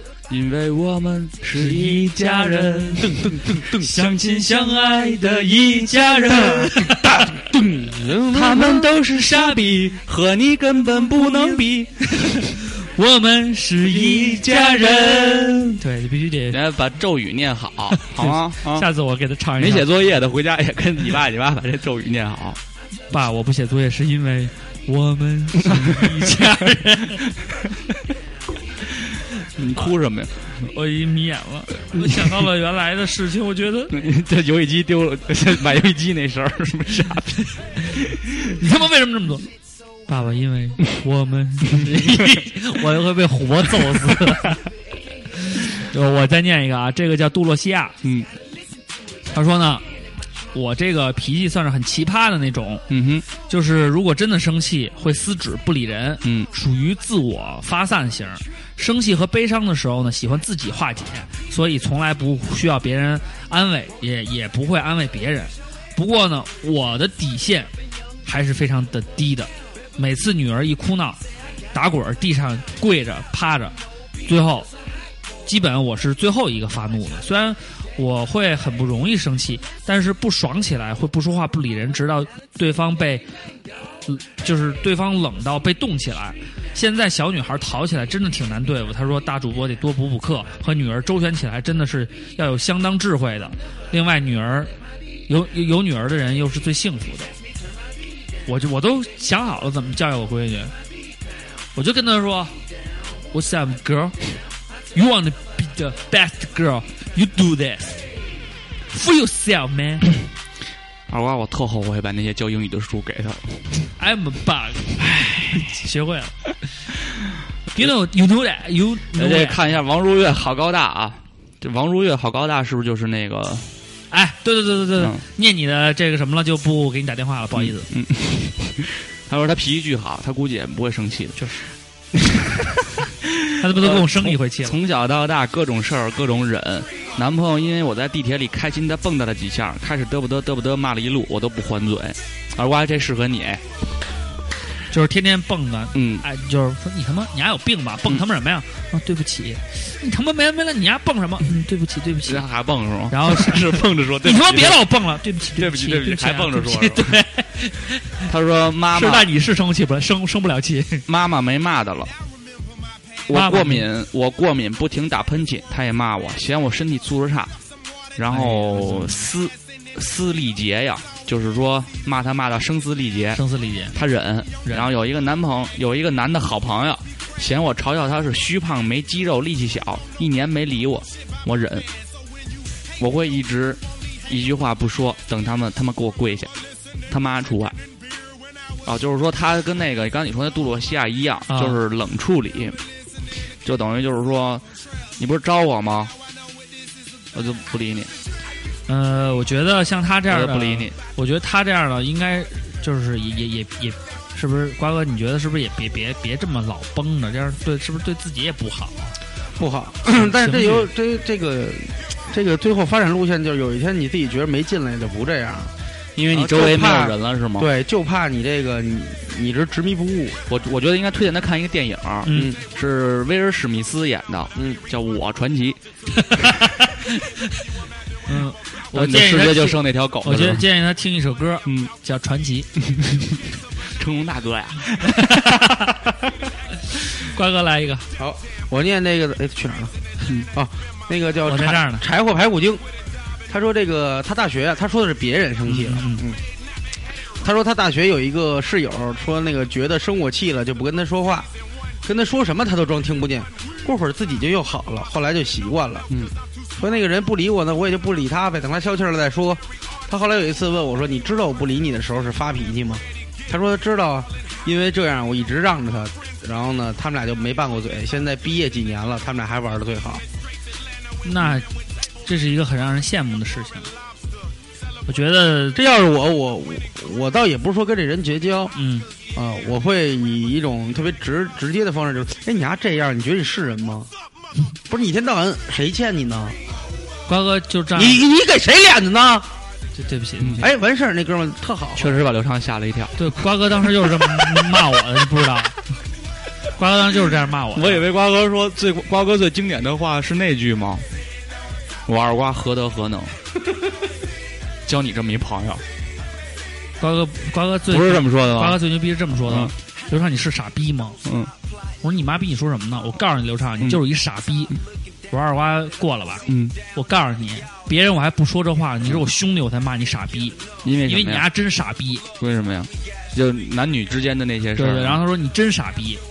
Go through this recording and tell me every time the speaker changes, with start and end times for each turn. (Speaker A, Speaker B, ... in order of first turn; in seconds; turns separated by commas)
Speaker A: 0.3-7.0, Speaker B: 1.6-2.8, Speaker C: 3.0-3.8, Speaker B: 3.8-7.2, Speaker C: 7.1-8.9, Speaker A: 8.3-12.1, Speaker B: 12.2-14.6, Speaker A: 13.8-15.8, Speaker B: 15.8-16.6, Speaker A: 16.5-18.9, Speaker B: 17.9-19.9, Speaker A: 19.6-22.6, Speaker B: 23.1-27.2, Speaker A: 25.6-26.4, Speaker A: 27.2-27.7, Speaker A: 29.4-30.7, Speaker B: 30.6-33.9, Speaker A: 31.9-32.3, Speaker A: 33.9-38.3, Speaker B: 38.5-39.5, Speaker B: 40.1-44.6, Speaker A: 41.7-42.4, Speaker B: 45.4-48.0, Speaker A: 48.0-48.3, Speaker B: 49.3-49.8, Speaker B: 50.5-52.8, Speaker A: 52.9-53.3, Speaker B: 53.5-67.7, Speaker A: 56.2-56.5, Speaker B: 68.2-71.2, Speaker B: 71.7-73.7, Speaker B: 74.2-74.7, Speaker B: 75.5-83.2, Speaker B: 84.0-94.7, Speaker B: 95.3-97.3, Speaker B: 98.5-100.7, Speaker B: 101.7-102.5, Speaker B: 103.3-104.3, Speaker B: 104.9-108.1, Speaker B: 108.9-110.1, Speaker A: 111.1-113.7, Speaker B: 114.0-116.4, Speaker A: 115.2-115.6, Speaker B: 117.8-119.6, Speaker A: 119.1-123.7, Speaker B: 124.1-127.9, Speaker A: 125.0-125.2, Speaker A: 127.5-132.6, Speaker B: 131.4-131.6, Speaker A: 133.2-143.6, Speaker B: 133.6-134.8, Speaker B: 144.9-152.4, Speaker A: 145.9-146.2, Speaker A: 152.2-154.8, Speaker B: 153.1-158.1, Speaker A: 155.6-157.2, Speaker A: 158.2-159.3, Speaker B: 158.9-161.0, Speaker A: 161.1-162.1, Speaker A: 163.3-167.5, Speaker B: 163.3-163.8, Speaker A: 168.2-173.4, Speaker B: 168.3-169.2, Speaker B: 173.3-173.9, Speaker A: 173.9-181.9, Speaker A: 183.0-186.5, Speaker A: 187.1-187.8, Speaker A: 188.8-192.8, Speaker B: 191.5-191.8, Speaker A: 193.6-194.6, Speaker A: 195.2-196.1, Speaker A: 197.3-198.1, Speaker B: 198.9-209.2, Speaker A: 200.3-200.9, Speaker C: 209.6-215.7, Speaker B: 210.2-210.9, Speaker A: 216.2-217.7, Speaker C: 216.3-220.4, Speaker A: 220.5-225.8, Speaker B: 222.2-222.5, Speaker C: 222.3-222.6, Speaker C: 224.5-224.8, Speaker B: 228.2-232.7, Speaker A: 228.9-230.7, Speaker A: 231.6-231.9, Speaker A: 232.8-233.4, Speaker A: 233.9-235.6, Speaker B: 235.1-235.9, Speaker B: 237.2-238.1, Speaker C: 238.2-240.0, Speaker C: 240.5-242.8, Speaker B: 241.4-242.0, Speaker C: 243.5-246.1, Speaker B: 245.7-246.2, Speaker C: 247.4-251.5, Speaker C: 252.0-256.1, Speaker C: 256.8-270.2, Speaker B: 271.2-271.7, Speaker B: 272.2-273.9, Speaker B: 275.1-275.8, Speaker C: 275.7-278.7, Speaker B: 278.7-279.1, Speaker C: 279.3-284.1, Speaker C: 284.9-286.6, Speaker B: 287.3-288.2, Speaker C: 287.9-289.5, Speaker B: 289.9-290.7, Speaker C: 290.6-292.1, Speaker A: 292.0-293.4, Speaker B: 293.2-295.8, Speaker A: 294.1-294.6, Speaker B: 296.8-298.0, Speaker A: 297.7-301.0, Speaker A: 302.1-303.4, Speaker A: 304.9-305.8, Speaker B: 307.0-311.2, Speaker A: 307.9-309.7, Speaker A: 311.2-311.5, Speaker B: 312.0-314.7, Speaker B: 315.3-322.2, Speaker A: 316.5-316.8, Speaker A: 320.8-321.5, Speaker A: 322.4-325.2, Speaker B: 324.8-326.2